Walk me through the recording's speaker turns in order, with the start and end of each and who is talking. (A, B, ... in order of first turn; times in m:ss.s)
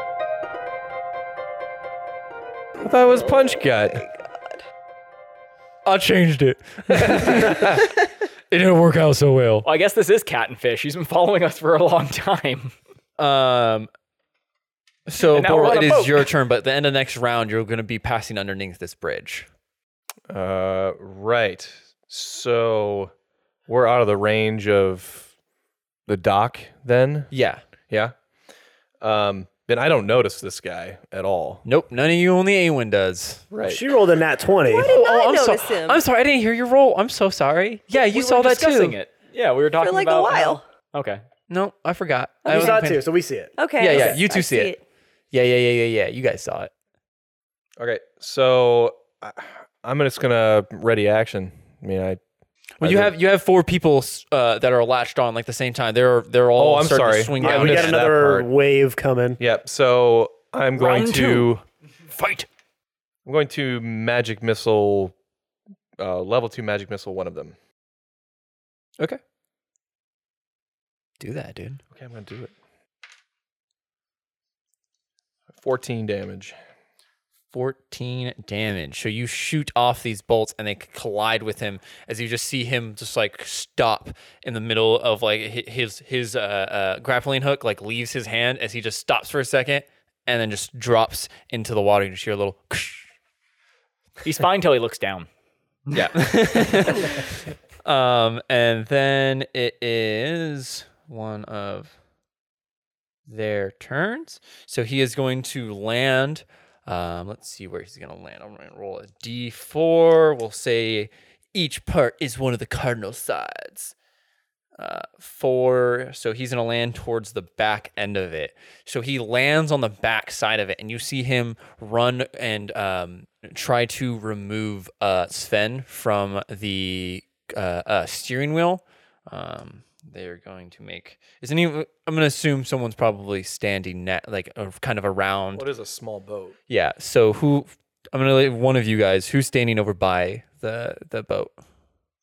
0:02.8-0:04.0 A
0:03.4-0:04.4 B
0:05.8-0:07.9 C
0:08.5-0:09.6 C
0:09.6-0:12.7 D
0:13.2-0:13.9 C
0:15.1-0:19.5 C
0:15.2-0:16.3 D
0:20.3-0:23.1 A
0:23.7-0:25.3 A
0:26.1-0:27.3 A
0:27.3-0:27.6 C
0:27.9-0:28.1 A
0:29.0-0:31.6 A
0:31.6-0:33.4 C
0:33.5-0:33.8 A
0:33.6-0:34.9 E
0:34.6-0:36.0 B
0:34.8-0:39.0 C
0:37.9-0:41.2 D
0:39.8-0:40.6 B
0:41.5-0:43.0 C
0:42.4-0:42.8 B
0:42.5-0:43.5 E
0:43.6-0:44.8 B
0:43.8-0:44.7 C
0:45.3-0:46.7 C
0:47.8-0:52.2 A
0:52.8-0:58.1 C
0:52.8-0:53.1 A
0:56.6-0:58.5 A
0:57.4-0:59.4 E
0:59.4-1:01.6 A
1:00.8-1:01.4 D
1:01.0-1:01.3 C
1:02.1-1:02.4 C
1:03.2-1:05.1 A
1:06.0-1:07.5 A
1:11.2-1:11.8 C
1:11.9-1:12.5 A
1:15.5-1:16.6 A
1:17.5-1:33.1 C
1:34.2-1:35.3 D
1:35.9-1:37.2 C
1:37.8-1:41.9 C
1:43.3-1:53.9 C
1:54.8-2:15.6 C
2:15.5-2:16.6 A
2:16.7-2:21.5 C